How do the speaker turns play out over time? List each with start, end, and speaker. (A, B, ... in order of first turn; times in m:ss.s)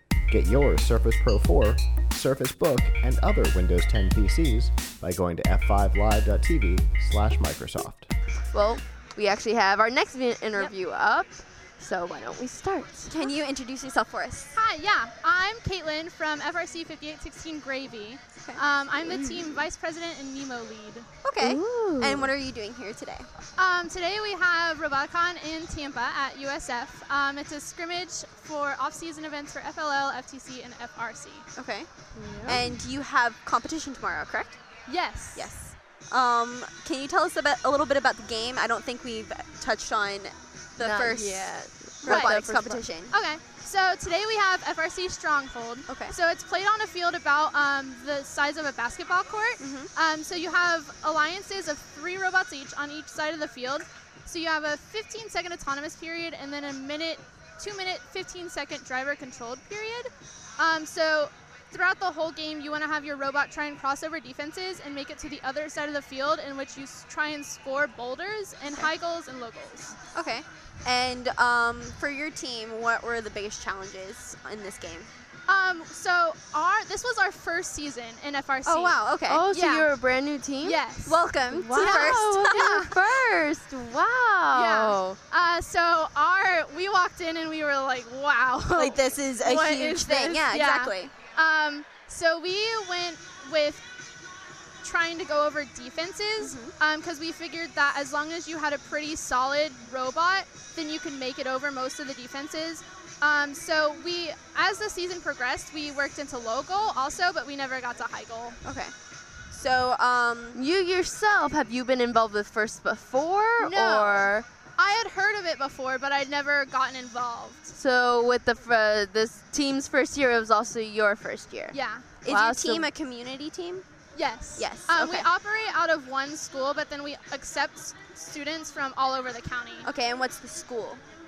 0:00.3-0:08.1 A
0:08.5-0:13.2 B
0:13.1-0:14.6 C
0:14.5-0:21.1 D
0:18.4-0:19.7 C
0:21.2-0:23.3 C
0:21.4-0:22.3 B
0:23.6-0:31.5 D
0:31.6-0:31.9 C
0:32.2-0:32.8 B
0:32.4-0:34.6 C
0:34.9-0:35.5 D
0:35.4-0:43.1 C
0:40.8-0:42.8 B
0:42.0-0:42.4 D
0:43.1-1:10.0 D
0:45.9-0:46.1 C
0:49.6-0:49.9 C
1:10.1-1:15.1 C
1:15.5-1:19.0 D
1:18.6-1:19.4 C
1:19.3-1:20.8 B
1:19.5-1:19.9 D
1:20.6-1:21.2 D
1:21.0-1:22.8 C
1:21.5-1:25.2 B
1:21.7-1:23.0 D
1:24.5-1:33.9 D
1:28.8-1:31.1 C
1:34.8-1:48.6 D
1:36.4-1:36.7 C
1:48.6-1:48.9 C
1:49.5-1:50.6 C
1:50.6-1:54.4 B
1:53.6-1:57.8 D
1:57.7-2:02.9 B
2:01.7-2:02.1 D
2:02.2-2:03.8 C
2:04.2-2:09.9 D
2:04.6-2:05.3 C
2:09.8-2:11.0 C